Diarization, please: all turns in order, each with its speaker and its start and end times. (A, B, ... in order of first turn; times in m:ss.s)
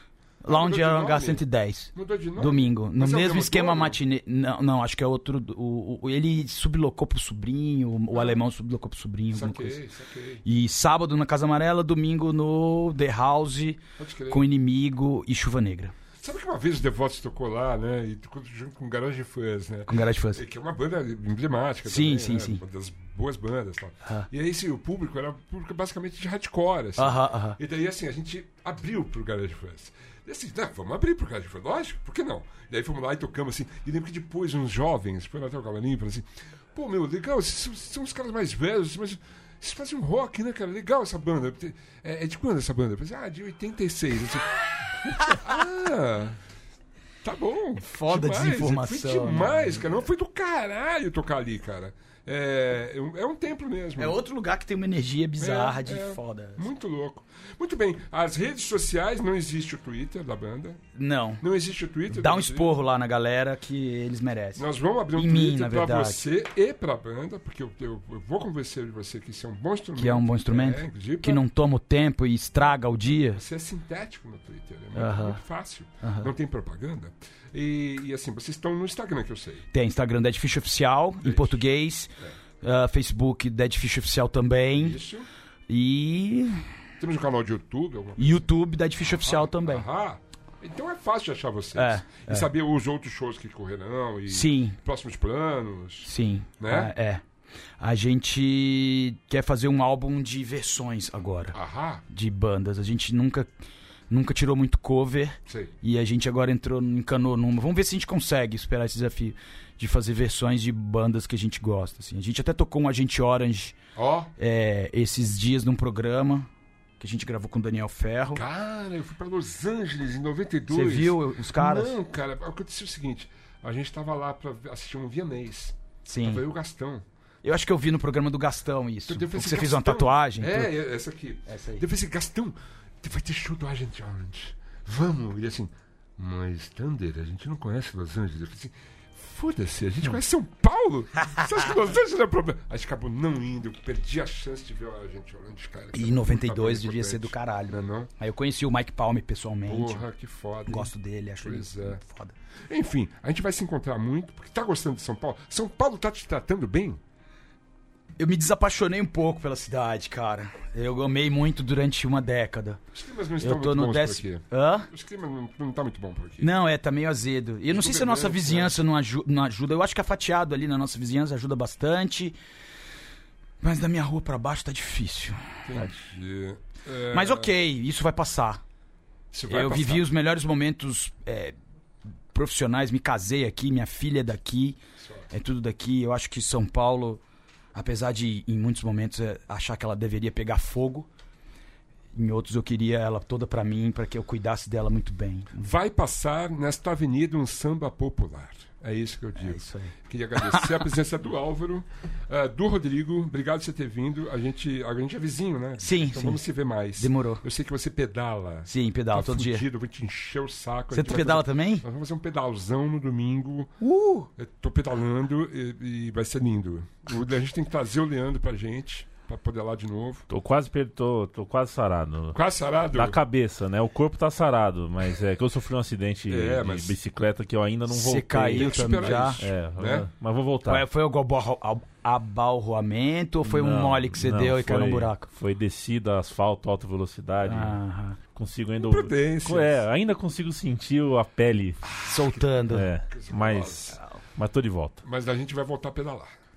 0:00.4-0:09.8 A
0:00.5-0:04.0 B
0:08.1-0:08.4 B
0:09.3-0:10.4 B
0:10.4-0:15.9 A
0:14.0-0:14.4 B
0:16.2-0:46.4 B
0:19.9-0:20.4 A
0:21.8-0:22.6 A
0:27.0-0:27.6 A
0:47.2-0:54.2 B
0:47.8-0:50.0 A
0:54.0-0:56.7 A
0:55.4-1:00.8 B
1:01.0-1:01.4 A
1:01.4-1:02.8 B
1:02.1-1:06.2 A
1:04.6-1:11.4 B
1:10.0-1:13.4 A
1:13.3-1:19.7 B
1:14.9-1:15.4 A
1:16.0-1:16.3 A
1:19.7-1:25.0 A
1:21.2-1:21.6 B
1:24.8-1:25.3 B
1:25.7-1:26.7 A
1:27.0-1:28.5 B
1:28.2-1:29.9 A
1:29.0-1:36.9 B
1:31.8-1:32.5 A
1:34.3-1:34.8 A
1:36.0-1:37.2 A
1:37.8-1:41.6 A
1:41.5-1:42.0 B
1:42.1-1:43.5 A
1:44.1-1:53.8 A
1:45.5-1:45.7 B
1:54.0-1:54.3 B
1:54.4-1:58.4 A
1:58.3-2:07.0 B
2:00.7-2:02.0 A
2:06.1-2:06.4 A
2:07.4-2:10.8 A
2:09.1-2:28.1 B
2:11.5-2:11.9 A
2:25.9-2:30.0 A
2:29.7-2:32.0 B
2:30.7-2:32.3 A
2:32.6-2:37.0 B
2:38.2-2:42.8 A
2:42.9-2:46.5 B
2:43.4-2:44.9 A
2:46.4-2:52.4 A
2:47.7-2:48.8 B
2:53.6-2:55.9 A
2:55.7-2:57.5 B
2:57.1-2:58.6 A
2:59.3-3:00.1 B
2:59.5-3:01.6 A
3:02.3-3:04.8 A
3:05.0-3:05.3 B
3:05.3-3:07.2 A
3:07.7-3:11.1 A
3:12.2-3:15.6 A
3:15.6-3:33.7 B
3:19.4-3:20.8 A
3:25.8-3:26.4 A
3:27.0-3:27.4 A
3:28.7-3:29.7 A
3:30.9-3:31.8 A
3:33.8-3:34.3 A
3:34.4-3:40.2 B
3:40.3-3:42.4 C
3:42.3-3:43.2 B
3:42.9-3:50.8 C
3:46.3-3:47.0 B
3:47.9-3:49.4 A
3:48.5-3:50.1 B
3:50.6-3:55.3 A
3:53.4-3:57.8 C
3:57.4-3:58.2 A
3:58.3-4:01.8 C
3:58.8-3:59.8 B
4:01.9-4:02.6 B
4:01.9-4:02.9 A
4:02.7-4:05.0 C
4:03.1-4:04.0 B
4:05.0-4:06.3 B